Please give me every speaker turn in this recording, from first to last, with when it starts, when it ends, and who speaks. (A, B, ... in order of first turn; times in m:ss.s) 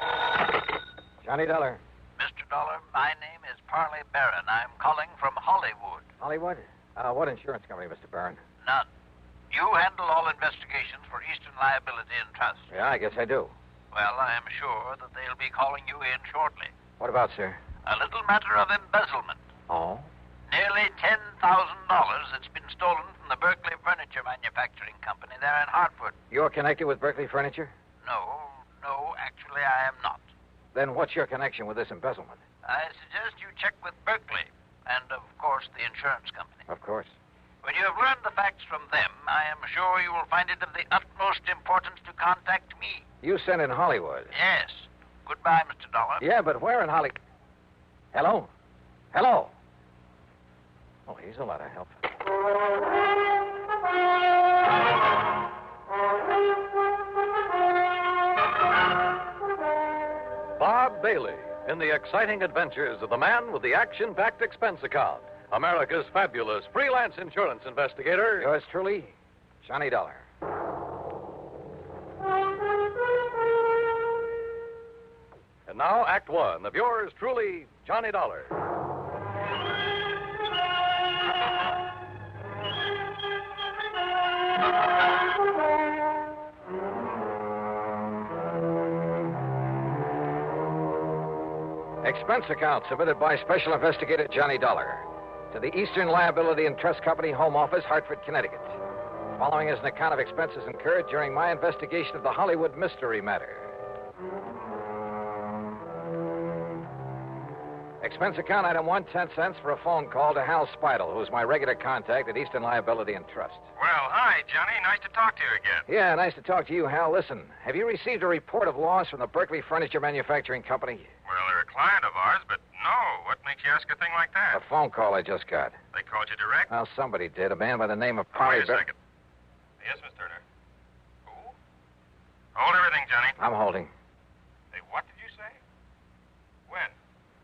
0:01.2-0:01.8 A
0:02.2-0:06.0 B
0:06.2-0:08.4 A
0:09.5-0:12.6 B
0:12.7-0:13.5 A
0:14.0-0:16.7 B
0:17.0-0:17.6 A
0:17.9-0:19.3 B
0:19.7-0:20.1 A
0:20.5-0:26.1 B
0:26.3-0:27.7 A
0:28.0-0:30.2 B
0:30.7-0:32.4 A
0:32.7-0:36.5 B
0:36.7-0:37.1 A
0:37.7-0:43.0 B
0:43.2-0:44.3 A
0:44.4-0:46.2 B
0:46.2-0:47.2 A
0:48.1-0:48.5 A
0:49.1-0:49.5 A
0:51.1-0:51.9 A
1:00.6-1:08.5 C
1:08.4-1:09.1 A
1:09.6-1:10.2 A
1:15.7-1:18.5 C
1:32.0-1:38.8 A
1:39.4-1:43.7 A
1:48.0-1:53.7 A
1:53.8-1:55.8 D
1:55.9-2:01.1 A
2:01.2-2:04.6 D
2:04.5-2:05.8 A
2:05.9-2:06.7 D
2:06.7-2:08.9 A
2:08.3-2:08.9 D
2:09.8-2:10.4 D
2:11.3-2:11.5 D
2:12.6-2:13.4 D
2:13.4-2:13.9 A
2:14.7-2:15.6 D
2:16.7-2:16.9 D